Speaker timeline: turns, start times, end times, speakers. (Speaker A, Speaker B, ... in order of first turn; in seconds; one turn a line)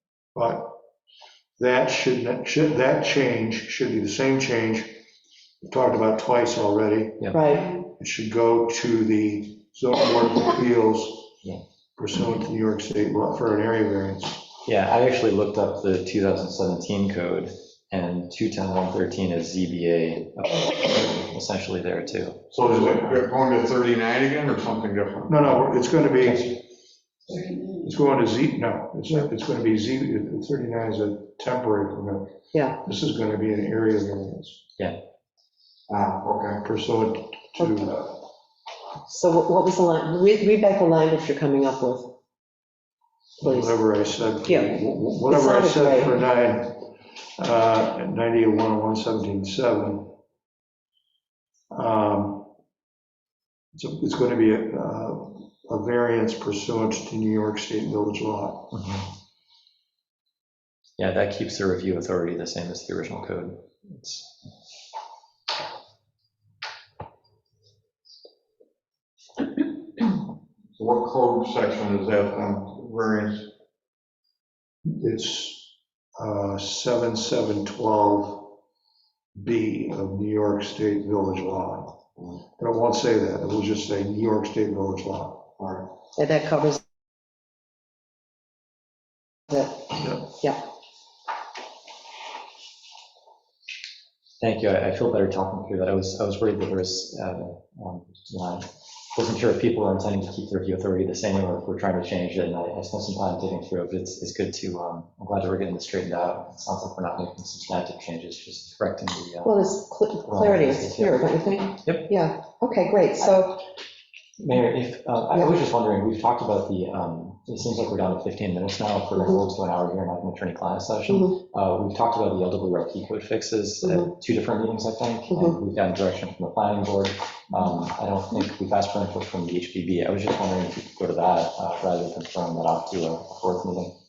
Speaker A: 0.3-0.7
Speaker A: 1.6-5.0
Speaker A: 5.6-11.3
Speaker B: 7.3-7.8
Speaker A: 12.0-14.5
Speaker C: 14.7-22.5
Speaker D: 22.5-25.6
Speaker A: 22.6-23.1
Speaker A: 25.3-26.7
Speaker A: 27.4-34.6
Speaker B: 32.5-32.8
Speaker D: 35.9-36.6
Speaker A: 36.6-38.1
Speaker B: 39.1-42.1
Speaker A: 43.4-50.1
Speaker B: 43.4-43.8
Speaker B: 44.5-46.1
Speaker A: 51.7-52.5
Speaker A: 53.7-58.7
Speaker C: 58.7-59.1
Speaker C: 61.0-64.3
Speaker D: 70.8-73.5
Speaker A: 74.8-78.6
Speaker A: 79.3-82.0
Speaker A: 82.6-85.5
Speaker D: 85.6-85.9
Speaker B: 86.2-86.8
Speaker B: 89.5-90.6
Speaker A: 90.0-90.3
Speaker C: 94.4-109.7
Speaker B: 109.4-113.6
Speaker C: 110.2-112.1
Speaker C: 114.4-133.9
Speaker B: 119.2-119.4
Speaker B: 121.1-121.3
Speaker B: 125.3-125.6